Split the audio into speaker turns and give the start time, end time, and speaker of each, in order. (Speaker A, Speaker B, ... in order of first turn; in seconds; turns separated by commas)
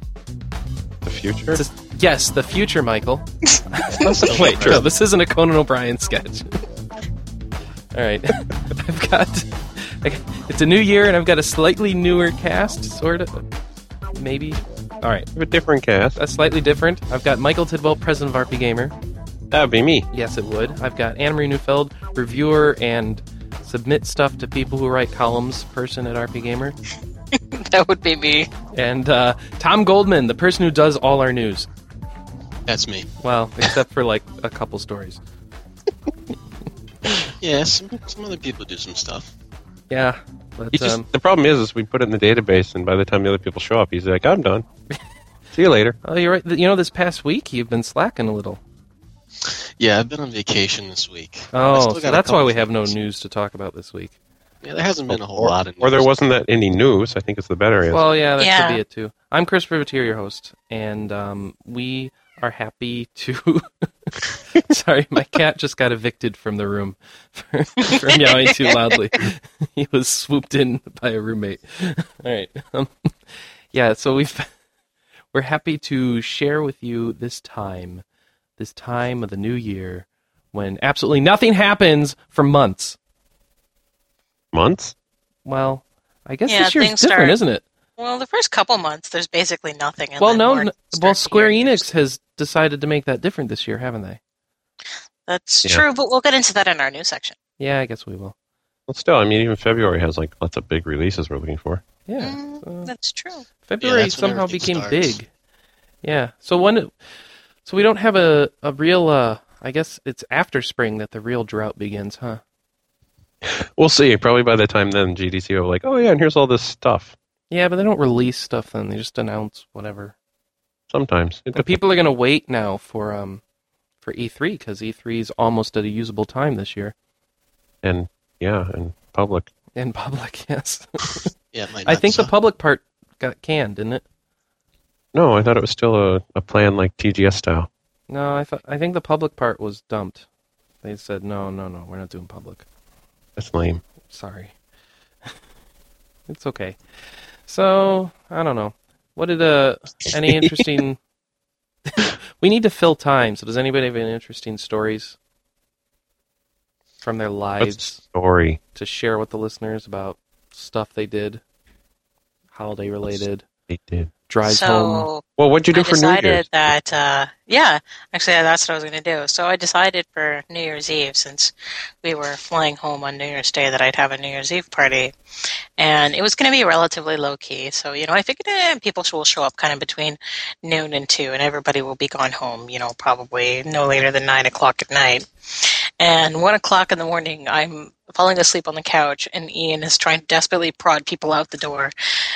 Speaker A: 1.0-1.6, Speaker B: 1.5-6.6, Speaker A: 4.1-4.8, Speaker C: 4.2-4.6, Speaker B: 7.9-13.5, Speaker B: 14.1-15.3, Speaker A: 15.3-16.2, Speaker B: 16.1-18.9, Speaker A: 19.5-20.1, Speaker B: 20.1-26.8, Speaker D: 27.3-28.5, Speaker B: 28.7-31.7, Speaker C: 32.7-33.1, Speaker B: 33.2-35.2, Speaker C: 37.4-39.3, Speaker B: 39.9-41.1, Speaker A: 40.7-44.6, Speaker A: 45.5-46.0, Speaker B: 46.0-48.6, Speaker C: 49.4-52.9, Speaker B: 51.5-54.1, Speaker C: 54.6-56.1, Speaker A: 55.1-58.0, Speaker B: 57.9-73.1, Speaker D: 58.4-58.8, Speaker D: 67.9-68.7, Speaker B: 73.7-74.5, Speaker B: 75.3-78.0, Speaker B: 78.6-83.0, Speaker A: 84.5-84.9, Speaker B: 85.4-87.6, Speaker D: 86.5-87.4, Speaker D: 88.0-91.8, Speaker B: 90.2-94.2, Speaker D: 95.3-97.3, Speaker B: 97.6-98.3, Speaker A: 98.9-101.8, Speaker B: 102.0-102.9, Speaker D: 102.2-103.5, Speaker B: 103.6-105.3, Speaker C: 103.8-105.2, Speaker B: 106.0-106.9, Speaker B: 107.6-112.4, Speaker A: 113.4-117.2, Speaker B: 117.5-120.1, Speaker A: 120.9-121.8, Speaker B: 121.5-123.4, Speaker B: 124.0-126.9, Speaker A: 127.8-129.5, Speaker B: 129.8-131.3, Speaker C: 131.5-132.3, Speaker B: 131.8-134.0, Speaker A: 135.1-137.7, Speaker B: 138.1-140.3, Speaker B: 140.8-142.7, Speaker A: 143.3-143.8, Speaker B: 144.1-144.5, Speaker B: 146.3-146.8, Speaker B: 147.4-151.0, Speaker B: 151.9-155.2, Speaker B: 157.0-158.0, Speaker A: 157.6-158.6, Speaker B: 158.7-161.4, Speaker B: 162.5-163.5, Speaker A: 163.7-164.1, Speaker B: 164.3-165.1, Speaker D: 164.4-175.1, Speaker A: 165.4-166.4, Speaker D: 175.8-191.9